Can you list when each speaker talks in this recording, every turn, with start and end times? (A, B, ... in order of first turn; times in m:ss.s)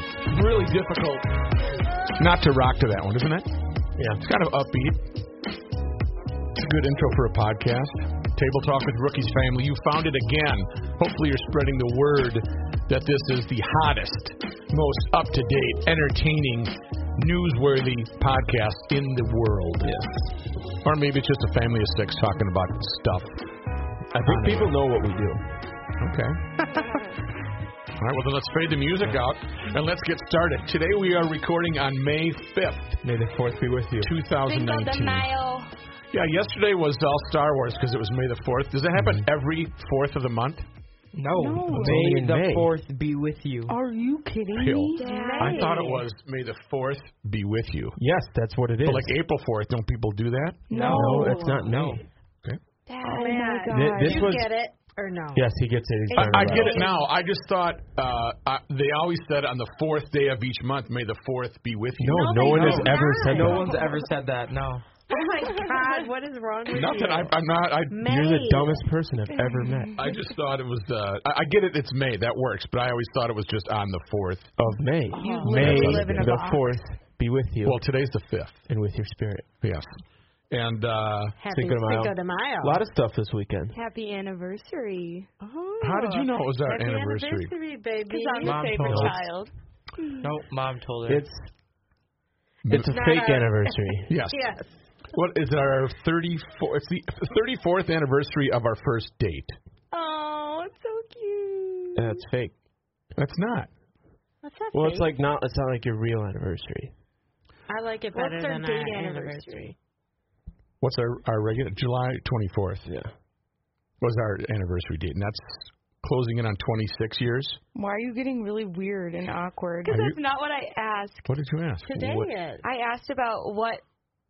0:00.2-0:01.3 A
0:02.2-0:03.6 A
0:04.0-0:04.2 B
0:04.2-0:05.2 A
0:06.5-0:20.1 A
0:19.8-0:20.2 B
0:20.7-0:23.4 A
0:24.1-0:25.6 B
0:24.2-0:24.7 A
0:26.0-0:26.5 A
0:28.0-0:33.0 A
0:33.0-0:34.3 B
0:34.0-0:35.3 A
0:34.4-0:35.7 C
0:36.1-0:40.7 A
0:38.9-0:39.3 B
0:41.1-0:43.8 D
0:41.3-0:42.0 E
0:41.7-0:42.7 B
0:43.7-0:45.1 E
0:44.5-0:48.0 A
0:45.0-0:45.9 C
0:45.0-0:46.0 F
0:48.0-0:49.2 B
0:48.8-0:50.7 A
0:50.7-0:51.6 E
0:50.7-0:52.0 D
0:50.9-0:52.1 B
0:52.9-0:53.5 C
0:53.0-0:54.3 E
0:53.1-0:55.5 F
0:53.7-0:54.5 B
0:55.3-0:56.9 B
0:56.1-0:56.8 E
0:56.1-1:03.5 A
1:02.0-1:03.8 B
1:02.1-1:03.6 F
1:02.4-1:04.9 D
1:05.1-1:07.4 F
1:06.7-1:08.1 A
1:07.9-1:08.9 F
1:08.0-1:10.0 B
1:10.0-1:14.6 A
1:14.6-1:17.9 B
1:15.1-1:16.0 C
1:15.1-1:16.8 E
1:15.6-1:16.3 A
1:17.6-1:18.7 A
1:18.7-1:19.5 B
1:19.6-1:21.4 A
1:21.4-1:22.8 F
1:21.5-1:23.8 B
1:23.7-1:25.3 C
1:25.4-1:29.1 F
1:25.8-1:27.5 A
1:28.1-1:29.5 C
1:28.4-1:29.2 D
1:30.0-1:30.3 C
1:30.2-1:31.2 D
1:31.1-1:31.5 B
1:32.6-1:33.0 A
1:32.7-1:34.1 B
1:32.9-1:35.0 F
1:34.1-1:34.4 A
1:35.0-1:39.6 A
1:39.9-1:42.2 C
1:42.0-1:42.6 B
1:43.2-1:43.7 A
1:44.4-1:45.1 F
1:44.7-1:46.9 B
1:47.7-1:49.7 F
1:48.1-1:49.7 C
1:50.8-1:52.9 A
1:52.9-1:53.1 B
1:54.0-1:57.6 A
1:57.7-2:00.0 E
1:59.8-2:01.3 C
1:59.9-2:00.2 A
2:01.3-2:01.9 A
2:01.8-2:02.6 F
2:02.0-2:02.3 B
2:02.6-2:03.8 C